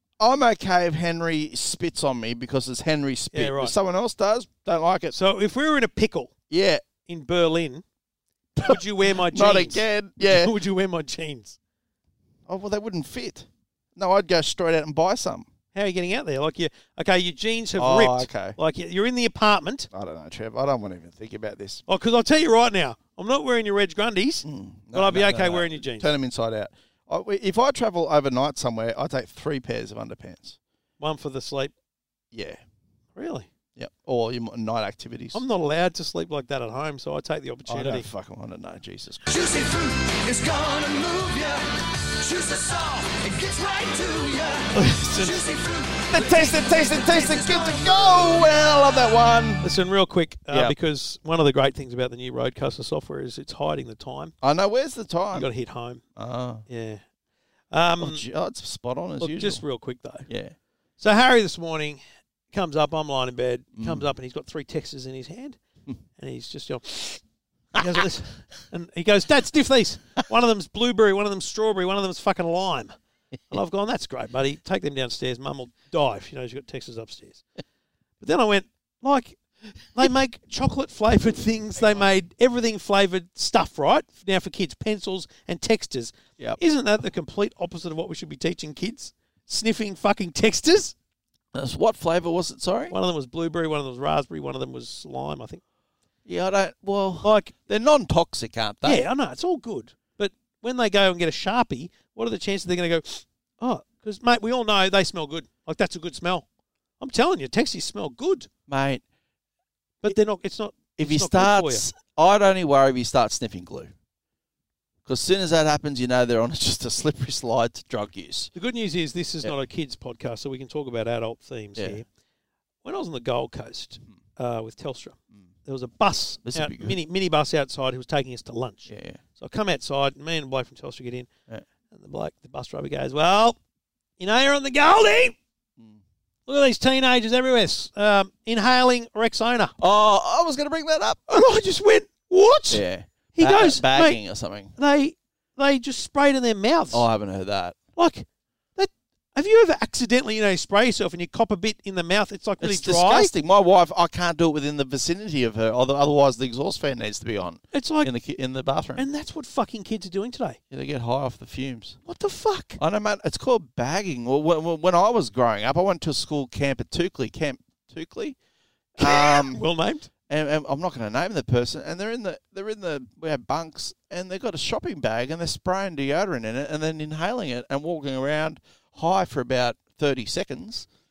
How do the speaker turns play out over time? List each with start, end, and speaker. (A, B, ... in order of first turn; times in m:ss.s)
0:00.2-0:05.2 A
0:03.3-0:03.8 B
0:05.1-0:06.3 B
0:06.5-0:06.8 A
0:07.1-0:07.8 B
0:08.6-0:10.5 A
0:08.6-0:11.6 B
0:12.5-0:15.5 A
0:15.7-0:19.9 B
0:17.8-0:18.6 A
0:19.9-0:21.8 A
0:21.9-0:26.1 B
0:24.4-0:30.6 A
0:31.0-0:31.7 B
0:32.3-0:32.6 A
0:33.2-0:33.5 B
0:33.8-0:35.4 A
0:35.3-0:38.1 B
0:37.7-0:39.5 A
0:39.3-0:48.5 C
0:44.7-0:45.4 B
0:46.1-0:49.7 A
0:49.6-0:54.4 B
0:50.5-0:50.8 A
0:54.4-0:55.5 A
0:55.3-0:56.0 B
0:56.2-0:56.6 A
0:56.7-0:57.0 B
0:57.7-0:58.2 B
0:58.0-0:59.6 A
0:59.2-1:00.3 B
1:00.3-1:00.6 A
1:01.0-1:05.6 B
1:03.8-1:04.1 A
1:06.2-1:07.2 B
1:07.8-1:13.0 B
1:13.5-1:17.4 B
1:18.2-1:19.4 B
1:20.0-1:31.0 B
1:31.5-1:33.0 A
1:32.9-1:35.6 B
1:36.3-1:39.1 A
1:37.2-1:37.5 B
1:38.8-1:46.4 B
1:47.0-1:48.5 B
1:48.7-1:49.0 A
1:50.0-1:51.9 B
1:51.0-1:53.9 A
1:55.0-1:58.5 A
1:58.6-2:02.1 B
2:01.8-2:02.0 A
2:02.8-2:11.3 B
2:06.4-2:07.0 A
2:08.9-2:09.2 A
2:11.9-2:13.6 B
2:14.2-2:15.4 B
2:16.5-2:19.8 B
2:19.8-2:21.5 A
2:21.3-2:24.2 B
2:22.7-2:24.8 A
2:24.8-2:27.1 B
2:26.9-2:27.8 A
2:28.0-2:33.3 B
2:32.6-2:39.1 A
2:37.7-2:38.1 B
2:39.0-2:40.6 B
2:40.7-2:42.0 A
2:42.0-2:42.8 B
2:42.8-2:48.4 A
2:49.0-2:49.6 A
2:49.0-2:50.1 B
2:50.3-3:00.9 A